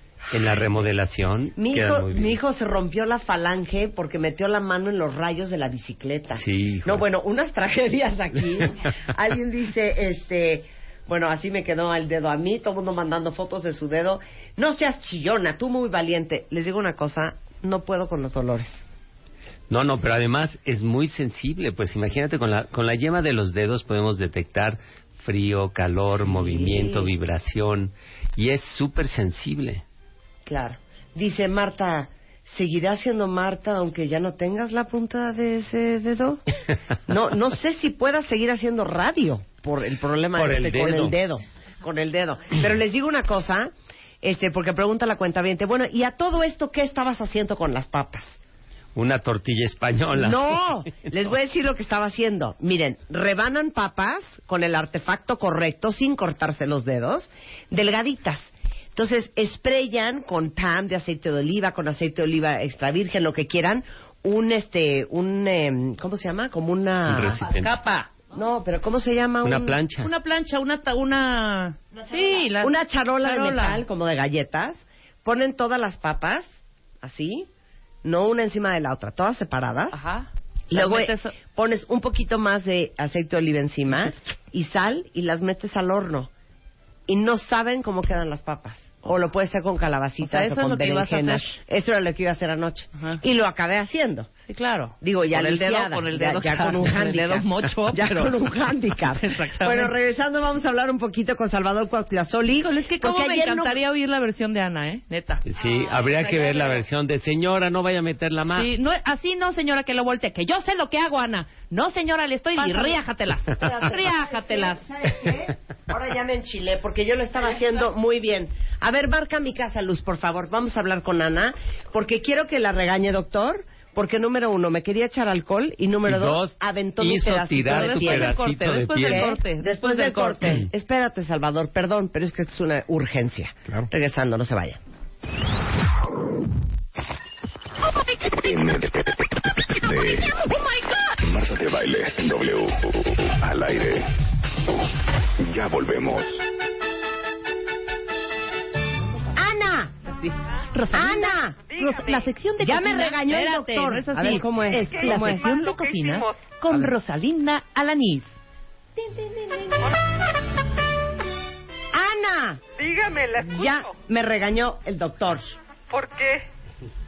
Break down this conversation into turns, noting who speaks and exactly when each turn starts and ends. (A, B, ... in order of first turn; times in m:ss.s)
0:00.3-0:02.4 A
0:01.6-0:18.8 B
0:06.3-0:07.1 A
0:19.7-0:29.8 A
0:26.1-0:27.1 B
0:30.4-0:36.4 B
0:37.1-0:43.7 B
0:40.4-0:41.2 A
0:44.2-0:48.4 B
0:48.9-0:50.6 A
0:50.1-1:07.4 B
1:07.1-1:07.7 A
1:07.5-1:08.1 C
1:08.3-1:09.8 B
1:09.4-1:10.1 A
1:10.0-1:13.8 C
1:12.6-1:16.5 B
1:17.0-1:17.5 B
1:18.0-1:20.0 B
1:19.9-1:21.4 C
1:20.7-1:26.3 B
1:27.1-1:34.3 B
1:30.2-1:31.5 C
1:34.4-1:39.9 C
1:35.0-1:43.8 B
1:42.6-1:46.8 C
1:45.4-1:48.7 A
1:48.5-1:54.8 C
1:52.6-2:08.4 B
2:06.0-2:09.4 A
2:07.7-2:10.7 C
2:09.0-2:14.8 B
2:18.0-2:24.1 D
2:24.7-2:26.4 D
2:29.3-2:29.9 B
2:30.0-2:38.4 C
2:30.9-2:31.6 B
2:31.7-2:32.3 E
2:32.6-2:35.5 B
2:34.7-2:36.4 E
2:39.0-2:39.8 C
2:41.9-2:42.6 B
2:42.7-2:43.9 E
2:43.4-2:45.6 B
2:45.9-2:46.4 E